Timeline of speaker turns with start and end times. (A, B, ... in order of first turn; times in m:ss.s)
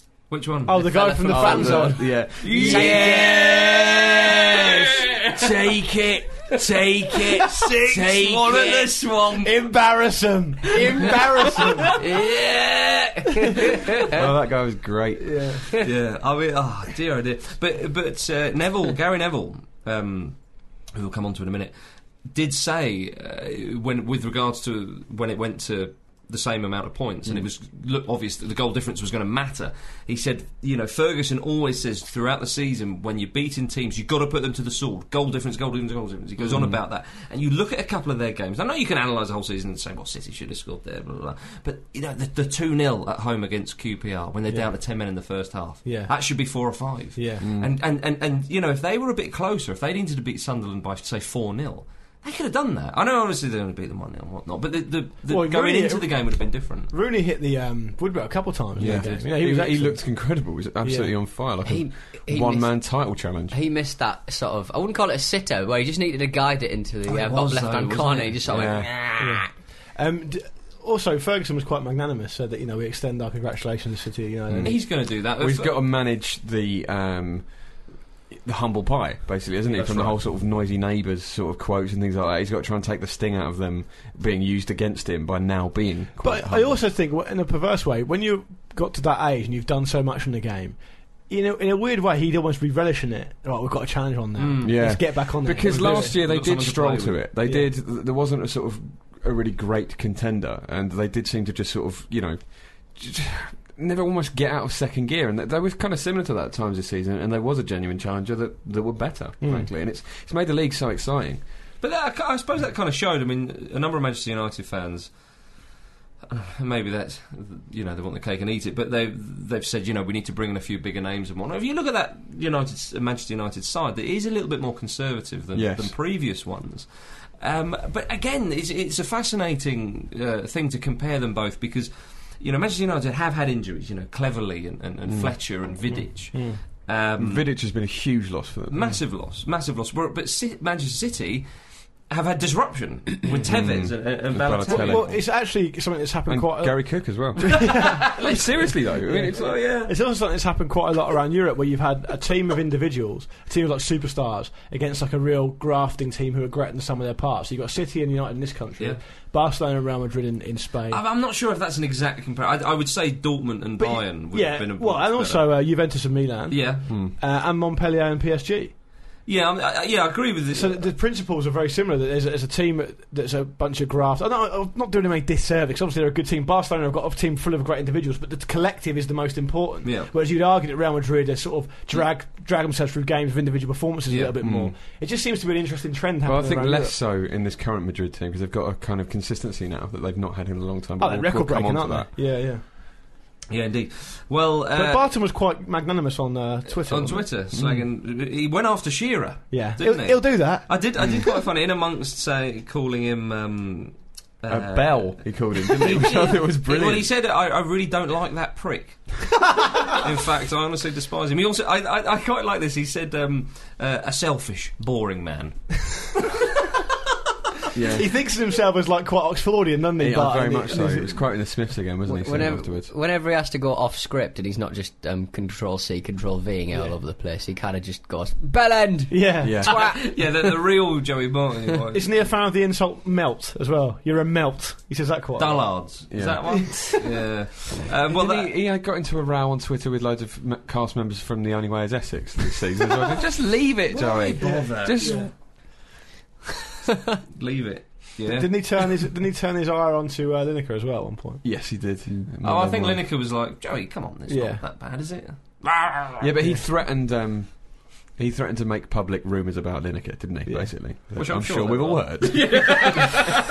0:00.3-0:00.8 A
0:00.6-0:03.3 B
0:00.7-0:03.3 C
0:01.3-0:04.2 D
0:02.4-0:05.8 A
0:05.3-0:08.7 D
0:06.5-0:09.5 A
0:09.4-0:12.0 B
0:10.9-0:13.2 A
0:12.0-0:12.3 C
0:14.1-0:15.6 D
0:15.2-0:15.6 B
0:15.8-0:56.9 A
0:36.4-0:36.8 D
0:45.8-0:47.4 B
0:47.4-0:47.7 D
0:55.3-1:01.1 B
0:58.8-1:03.6 D
0:58.8-0:59.2 A
1:01.6-1:09.4 C
1:07.1-1:08.9 A
1:08.5-1:08.9 D
1:09.2-1:14.8 B
1:14.5-1:26.8 D
1:14.6-1:15.8 A
1:19.7-1:20.2 A
1:26.2-1:36.2 B
1:34.4-1:37.3 A
1:34.6-1:51.4 D
1:37.4-1:37.7 B
1:49.4-1:49.7 B
1:51.8-1:55.6 A
1:56.3-2:17.4 A
2:05.5-2:05.9 D
2:15.0-2:15.6 D
2:15.9-2:16.6 B
2:17.2-2:19.0 D
2:18.7-2:21.5 A
2:22.0-2:25.2 A
2:23.4-2:25.3 D
2:24.7-2:28.1 B
2:26.3-2:29.6 D
2:27.6-2:29.9 A
2:29.1-2:41.0 B
2:40.9-2:45.6 A
2:43.8-2:48.7 B
2:46.5-2:46.9 A
2:46.9-2:47.1 D
2:49.2-2:50.9 A
2:50.5-3:06.9 B
2:59.8-3:00.1 A
3:04.1-3:04.3 A
3:04.4-3:04.7 D
3:06.2-3:12.1 D
3:11.0-3:12.6 B
3:13.5-3:15.1 A
3:14.7-3:17.3 B
3:16.8-3:36.2 A
3:17.5-3:17.9 D
3:19.5-3:20.8 B
3:21.0-3:21.2 D
3:24.5-3:27.1 D
3:37.7-3:38.1 D
3:37.9-3:41.2 B
3:40.0-3:42.9 D
3:42.0-3:50.4 C
3:49.1-3:49.8 B
3:49.4-3:49.9 D
3:49.6-3:52.3 A
3:51.9-3:56.0 B
3:55.4-3:58.5 A
3:56.1-3:56.9 D
3:58.0-4:05.3 D
4:03.9-4:05.3 A
4:04.4-4:05.3 B
4:07.4-4:08.9 A
4:08.3-4:11.4 B
4:11.4-4:13.0 D
4:12.4-4:16.2 A
4:14.3-4:14.6 B
4:16.2-4:23.2 D
4:20.4-4:20.7 B
4:21.1-4:23.4 A